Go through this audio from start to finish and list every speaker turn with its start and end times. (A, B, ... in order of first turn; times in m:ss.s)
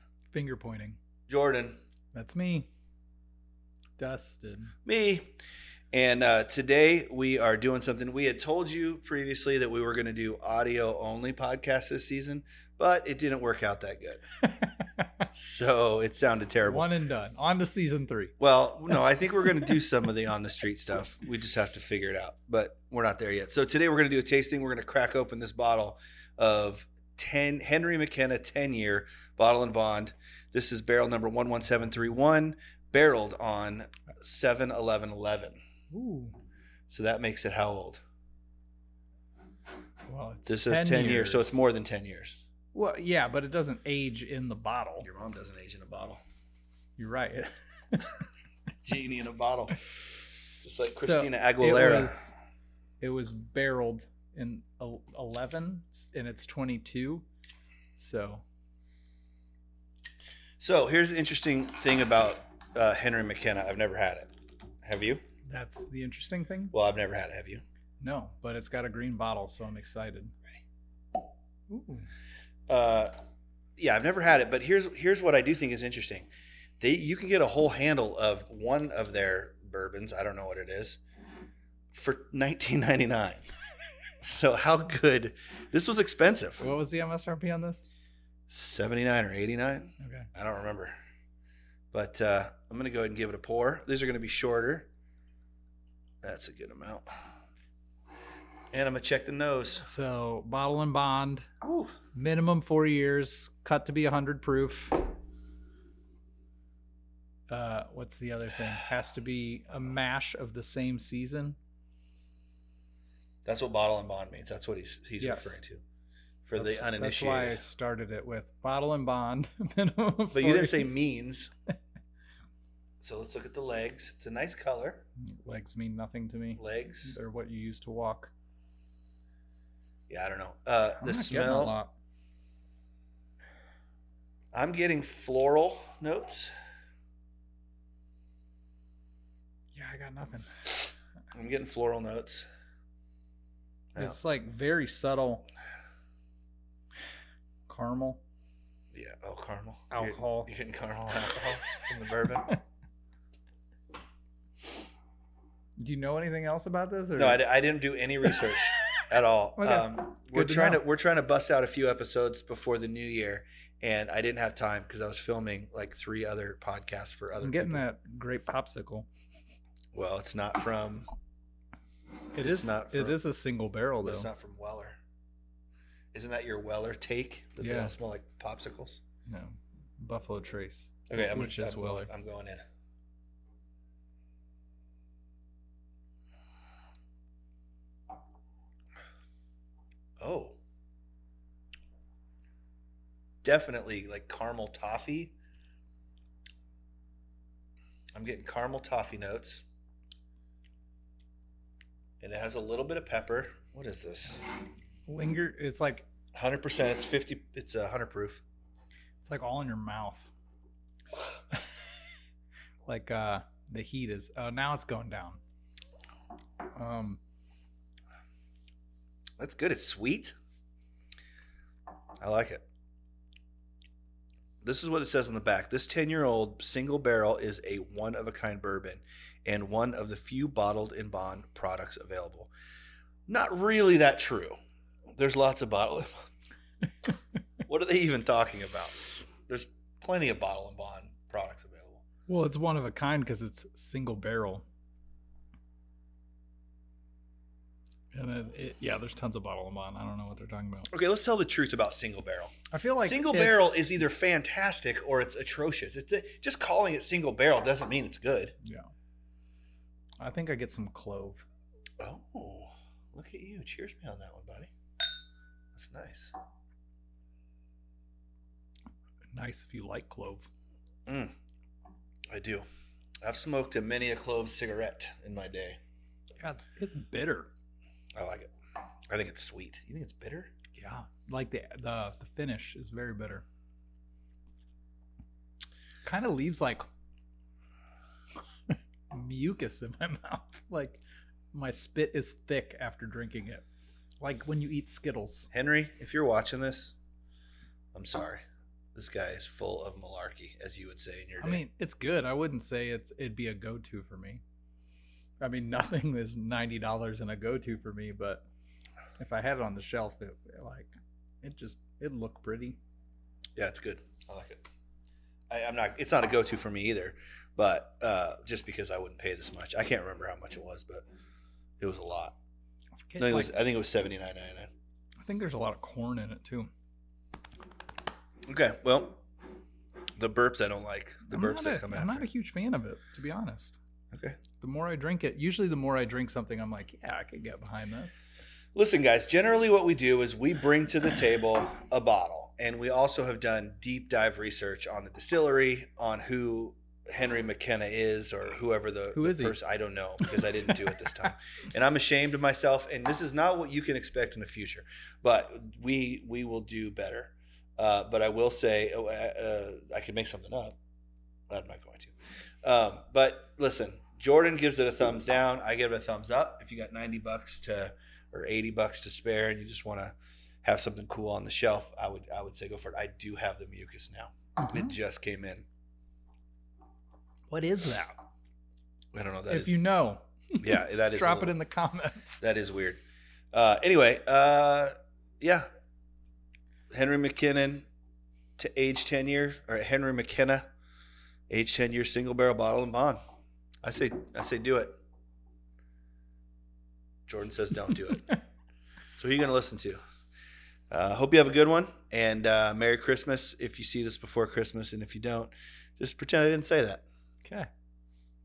0:00.3-0:01.0 A
0:01.3-0:01.8 B
0:02.1-0:02.7 A
0:04.0-0:04.7 A
0:04.8-0:05.3 B
0:05.9-0:14.2 B
0:14.6-0:15.2 A
0:15.3-0:16.8 B
0:16.6-0:18.3 A
0:18.4-0:35.6 B
0:35.9-0:36.4 A
0:36.9-0:38.0 B
0:40.1-0:41.6 A
0:40.5-0:42.4 B
0:42.7-0:45.1 A
0:45.0-0:46.2 B
0:47.0-0:48.2 A
0:48.8-0:49.8 B
0:50.6-0:52.2 B
0:50.9-0:52.3 A
0:53.0-0:57.2 A
0:58.0-0:58.4 A
1:00.6-1:04.3 B
1:04.8-1:05.2 B
1:05.5-1:06.7 A
1:06.7-1:07.6 B
1:08.0-1:10.3 A
1:11.7-1:12.1 A
1:12.7-1:13.1 B
1:13.8-1:16.3 B
1:16.8-1:21.0 B
1:21.9-1:23.5 B
1:24.2-1:26.6 B
1:26.6-1:27.8 A
1:28.5-1:30.9 B
1:30.0-1:30.3 A
1:31.9-1:34.9 B
1:36.2-1:37.1 B
1:38.7-1:39.8 B
1:39.8-1:41.5 A
1:41.6-1:42.0 B
1:42.1-1:45.1 A
1:47.5-1:51.6 A
1:53.4-1:55.8 B
1:55.2-1:55.6 A
1:56.4-1:57.6 B
1:56.6-2:00.9 A
2:00.3-2:01.5 B
2:03.0-2:05.0 B
2:05.2-2:08.3 A
2:06.6-2:07.2 B
2:10.1-2:11.8 B
2:11.0-2:11.9 A
2:14.5-2:16.5 B
2:19.7-2:20.8 A
2:21.3-2:22.5 B
2:24.0-2:25.5 A
2:27.7-2:28.2 A
2:28.9-2:32.6 B
2:29.9-2:30.5 A
2:35.8-2:37.4 A
2:37.2-2:47.8 B
2:39.6-2:40.8 A
2:47.4-2:49.1 A
2:49.9-2:51.1 B
2:52.3-2:54.3 A
2:52.4-2:53.2 B
2:54.0-2:55.0 B
2:56.1-2:59.0 B
2:57.6-2:57.9 A
2:59.3-3:02.1 A
3:01.1-3:02.6 B
3:10.2-3:10.6 B
3:13.4-3:15.3 B
3:18.1-3:19.6 B
3:22.2-3:24.4 B
3:25.1-3:26.1 A
3:26.3-3:28.4 B
3:29.2-3:30.3 A
3:32.8-3:35.4 A
3:36.7-3:37.2 A
3:39.4-3:40.3 B
3:42.2-3:42.6 B
3:44.6-3:52.5 B
3:53.3-3:54.6 B
3:55.2-3:56.1 B
3:57.6-4:02.0 B
4:02.3-4:04.6 A
4:08.1-4:10.9 A
4:10.9-4:18.5 B
4:12.7-4:13.7 A
4:18.6-4:18.9 A
4:20.2-4:21.4 A
4:22.0-4:24.7 B
4:25.7-4:26.3 B
4:29.3-4:30.5 A
4:31.1-4:31.3 B
4:32.3-4:32.6 B
4:33.2-4:35.8 B
4:36.4-4:37.5 A
4:38.2-4:38.5 B
4:39.1-4:40.5 B
4:40.8-4:43.4 A
4:46.0-4:46.8 A
4:48.7-4:51.0 A
4:51.5-4:53.6 A
4:54.2-4:55.5 A
4:55.5-4:57.0 B
4:57.9-4:58.4 B
4:58.9-5:01.6 B
5:01.4-5:04.4 A
5:05.4-5:08.4 A
5:09.2-5:12.8 A
5:13.6-5:14.6 B
5:15.5-5:21.0 B
5:21.8-5:22.4 B
5:23.1-5:23.5 A
5:23.2-5:24.7 B
5:25.2-5:26.7 A
5:28.5-5:29.2 B
5:30.2-5:32.3 B
5:31.3-5:33.8 A
5:34.1-5:34.4 B
5:34.6-5:38.2 A
5:38.7-6:00.8 B
5:49.1-5:49.6 A
6:01.5-6:15.6 B
6:14.6-6:14.9 A
6:17.5-6:18.2 A
6:19.1-6:19.8 B
6:19.5-6:22.4 A
6:20.6-6:21.6 B
6:22.4-6:23.0 B
6:23.5-6:25.6 B
6:26.9-6:27.8 B
6:28.6-6:30.7 B
6:31.5-6:33.2 B
6:33.8-6:35.0 B
6:37.3-6:38.4 B
6:39.2-6:40.0 B
6:40.9-6:47.0 B